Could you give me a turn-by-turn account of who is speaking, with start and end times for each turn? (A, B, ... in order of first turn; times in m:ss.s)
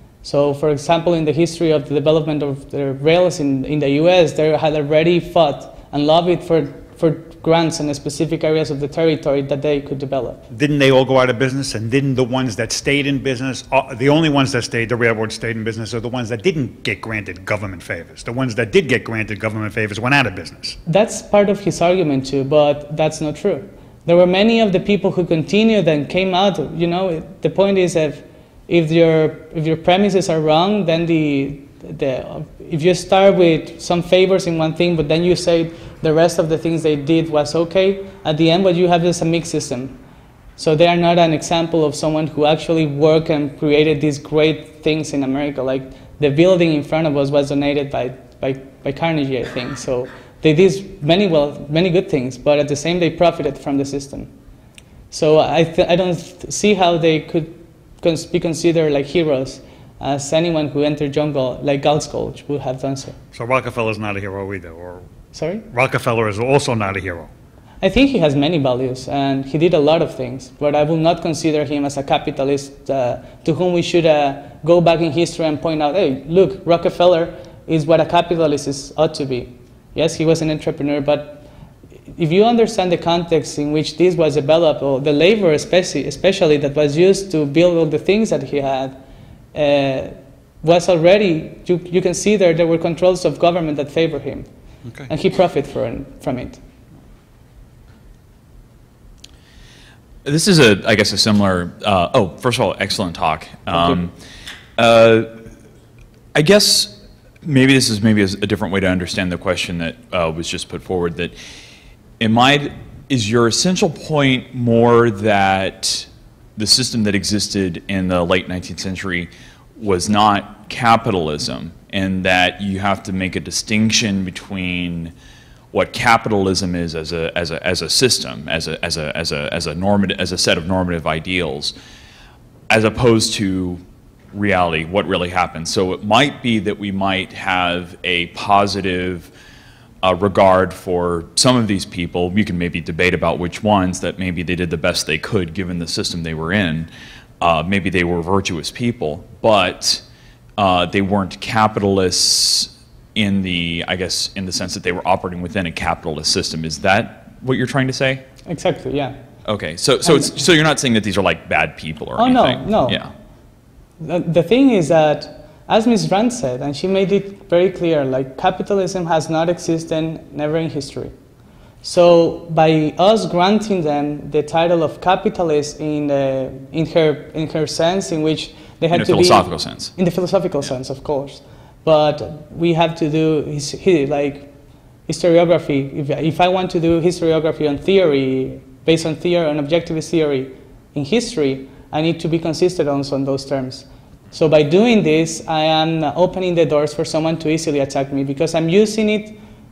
0:00.2-0:10.4 A
0:10.5-0:20.8 B
0:20.8-0:40.0 A
0:40.6-0:54.3 A
0:55.1-1:03.2 A
1:03.3-1:05.0 B
1:05.3-1:05.6 A
1:05.7-1:07.3 B
1:07.8-1:21.4 A
1:22.2-1:29.0 A
1:29.5-1:34.5 A
1:35.1-1:36.6 A
1:40.2-1:44.1 C
1:43.7-1:44.0 A
1:44.8-1:45.4 C
1:46.3-1:51.3 C
1:52.2-2:05.1 C
2:05.7-2:11.7 C
2:12.7-2:19.3 C
2:20.0-2:26.9 C
2:27.4-2:30.0 C
2:30.6-2:38.2 C
2:38.5-2:39.2 A
2:39.4-2:43.1 C
2:40.0-2:40.3 A
2:42.2-2:43.0 A
2:44.0-2:51.1 A
2:51.8-3:04.5 A
2:58.9-2:59.9 C
3:05.1-3:19.4 A